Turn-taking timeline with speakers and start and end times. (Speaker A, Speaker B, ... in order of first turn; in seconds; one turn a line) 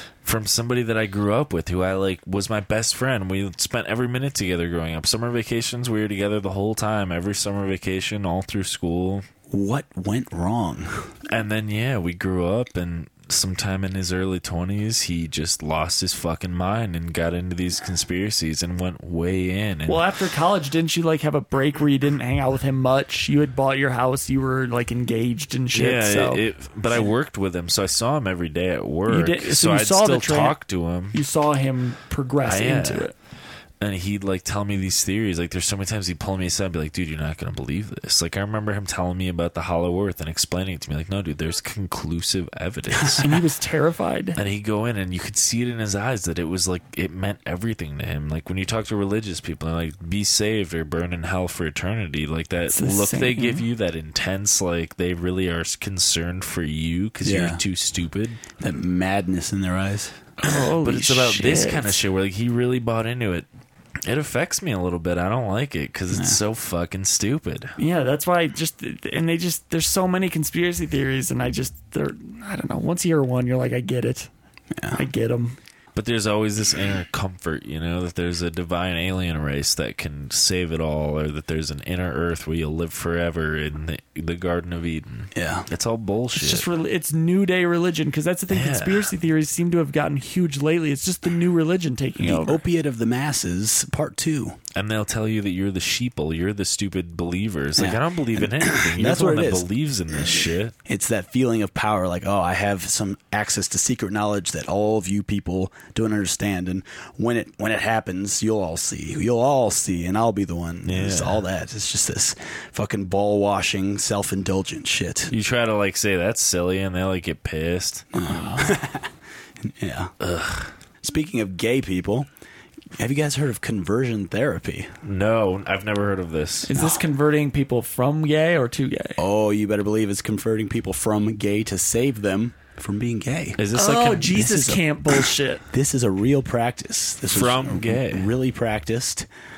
Speaker A: 0.2-9.2
Speaker B: 9.5-11.0
Speaker A: 11.3-20.0
Speaker C: 19.9-27.1
Speaker A: 25.7-31.2
Speaker C: 29.1-30.5
Speaker C: 31.1-33.1
Speaker A: 32.4-33.1
Speaker A: 33.8-43.3
Speaker C: 43.2-44.4
Speaker A: 44.4-58.4
Speaker C: 52.7-53.6
Speaker B: 57.2-57.6
Speaker B: 58.6-60.2
Speaker C: 60.4-62.0
Speaker A: 60.6-63.5
Speaker A: 64.0-67.7
Speaker B: 66.1-66.4
Speaker C: 67.8-74.3
Speaker B: 74.8-75.0
Speaker C: 75.0-75.6
Speaker A: 75.9-86.7
Speaker B: 85.3-85.7
Speaker C: 86.4-92.6
Speaker A: 88.5-89.1
Speaker B: 92.2-94.6
Speaker A: 94.7-100.7
Speaker B: 97.8-99.7
Speaker B: 100.2-115.3
Speaker A: 110.8-111.4
Speaker A: 115.3-118.1
Speaker B: 118.1-119.1
Speaker B: 119.6-120.1
Speaker A: 120.2-120.7
Speaker B: 121.0-122.3
Speaker B: 123.0-124.9
Speaker A: 125.0-126.7
Speaker C: 126.7-129.2
Speaker B: 129.2-133.6
Speaker A: 133.6-134.5
Speaker C: 133.7-135.6
Speaker B: 134.2-139.3
Speaker A: 137.3-138.3